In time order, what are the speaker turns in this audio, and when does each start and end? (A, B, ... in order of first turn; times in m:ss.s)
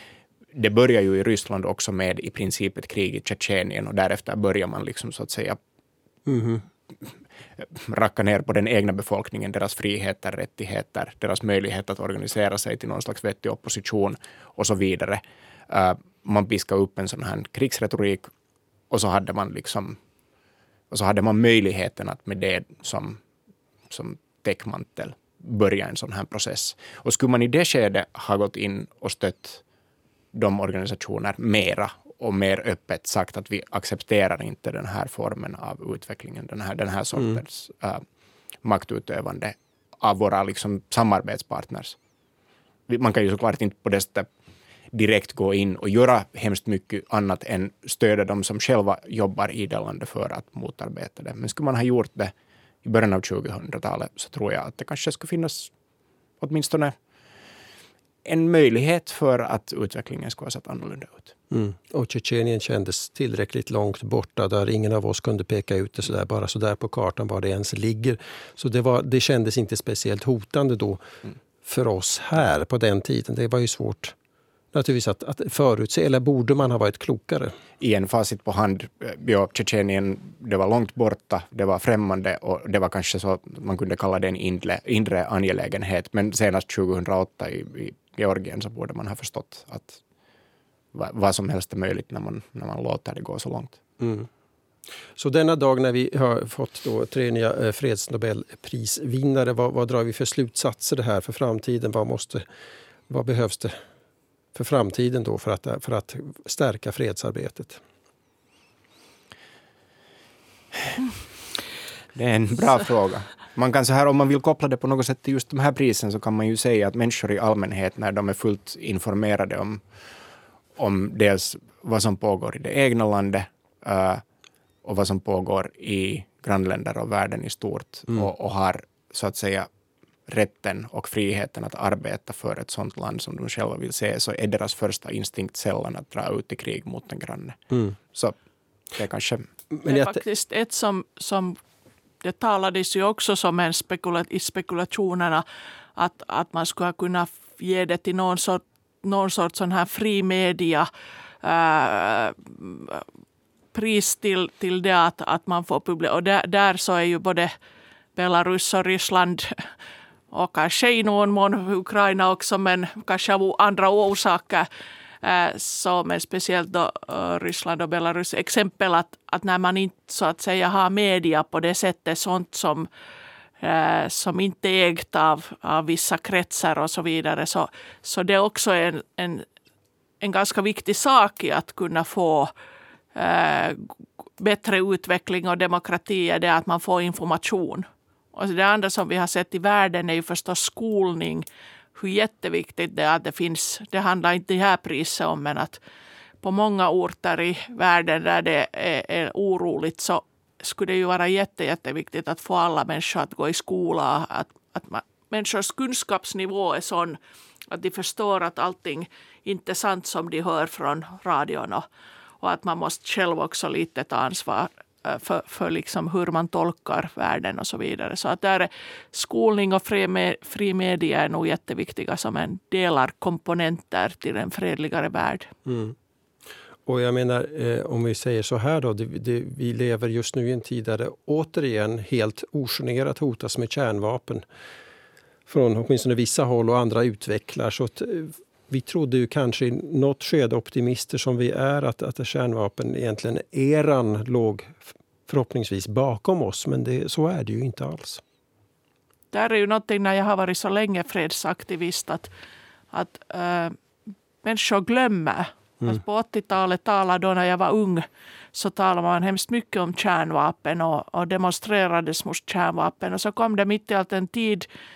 0:00.5-0:05.6 A
0:06.2-0:06.6 B
0:07.6-0:18.3 A
0:18.9-0:20.0 A
0:20.9-0:23.2 A
0:23.9-0:29.6 A
0:30.3-0:38.0 A
0:38.6-0:42.0 A
0:42.9-0:44.3 A
0:44.9-0:52.3 A
0:52.8-0:55.7 A
0:56.4-0:56.9 A
0:58.2-1:01.3 A
1:01.5-1:11.0 B
1:11.6-1:14.1 B
1:14.7-1:17.5 B
1:17.8-1:30.0 A
1:30.9-1:33.8 A
1:34.0-1:34.3 B
1:35.2-1:42.4 B
1:43.1-1:43.8 B
1:44.5-1:47.8 B
1:52.1-1:59.8 A
2:00.8-2:04.2 A
2:04.8-2:09.7 A
2:10.3-2:17.6 A
2:18.9-2:19.5 A
2:19.7-2:20.2 B
2:19.8-2:21.6 C
2:22.2-2:25.4 C
2:26.0-2:30.9 C
2:31.4-2:33.0 C
2:33.7-2:37.5 C
2:38.2-2:39.7 C
2:40.3-2:44.7 C
2:45.2-2:52.9 C
2:53.6-2:59.4 C
3:00.2-3:02.5 C
3:03.1-3:15.8 C
3:16.4-3:27.2 C
3:27.7-3:31.8 C
3:32.4-3:45.5 C
3:45.6-3:45.9 B
3:46.8-3:54.4 B
3:55.5-4:08.2 B
4:09.3-4:12.3 C
4:12.9-4:13.8 C
4:14.4-4:24.6 C